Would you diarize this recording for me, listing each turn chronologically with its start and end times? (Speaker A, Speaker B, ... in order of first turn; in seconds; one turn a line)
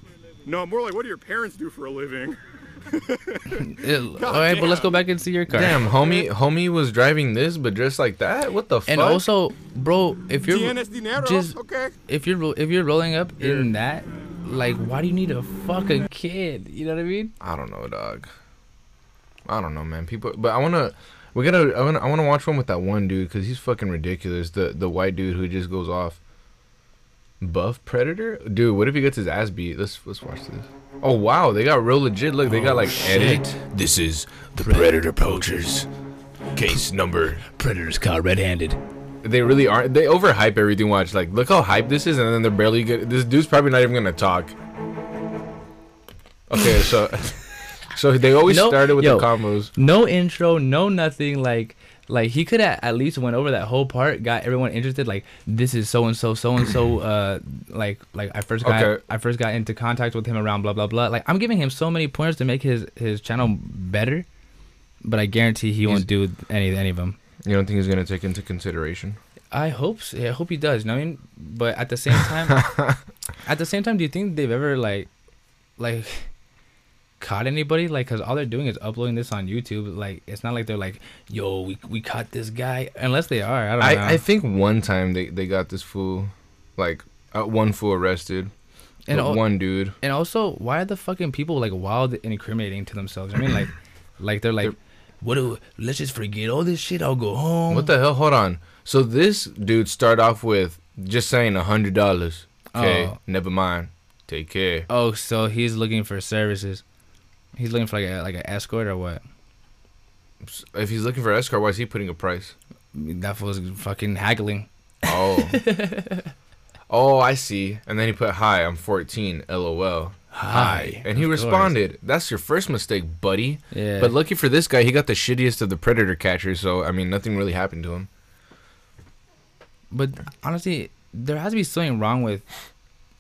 Speaker A: 0.4-5.1
Speaker B: 3.5-5.9
Speaker C: 5.5-9.3
Speaker A: 5.8-6.3
Speaker B: 8.9-17.3
Speaker A: 10.4-11.9
Speaker A: 13.4-13.7
Speaker C: 17.4-18.3
Speaker C: 19.4-26.2
Speaker C: 27.4-35.9
Speaker B: 32.5-33.6
Speaker B: 34.6-35.8
Speaker C: 36.5-37.5
Speaker B: 37.5-38.8
Speaker C: 39.2-44.5
Speaker C: 46.5-47.4
Speaker C: 47.9-49.7
Speaker B: 48.5-64.2
Speaker C: 58.6-59.0
Speaker B: 65.0-67.2
Speaker C: 67.4-69.2
Speaker B: 69.5-72.7
Speaker C: 72.5-73.0
Speaker B: 73.4-75.1
Speaker B: 75.8-76.3
Speaker B: 77.2-84.2
Speaker C: 83.8-88.5
Speaker B: 89.1-97.9
Speaker C: 89.1-90.0
Speaker C: 97.7-104.9
Speaker B: 102.7-103.2
Speaker B: 104.9-106.8
Speaker B: 107.5-109.2
Speaker C: 110.4-112.5
Speaker B: 112.9-116.3
Speaker C: 115.0-115.6
Speaker C: 116.9-128.1
Speaker B: 120.3-121.8
Speaker B: 123.7-124.1
Speaker B: 129.9-132.4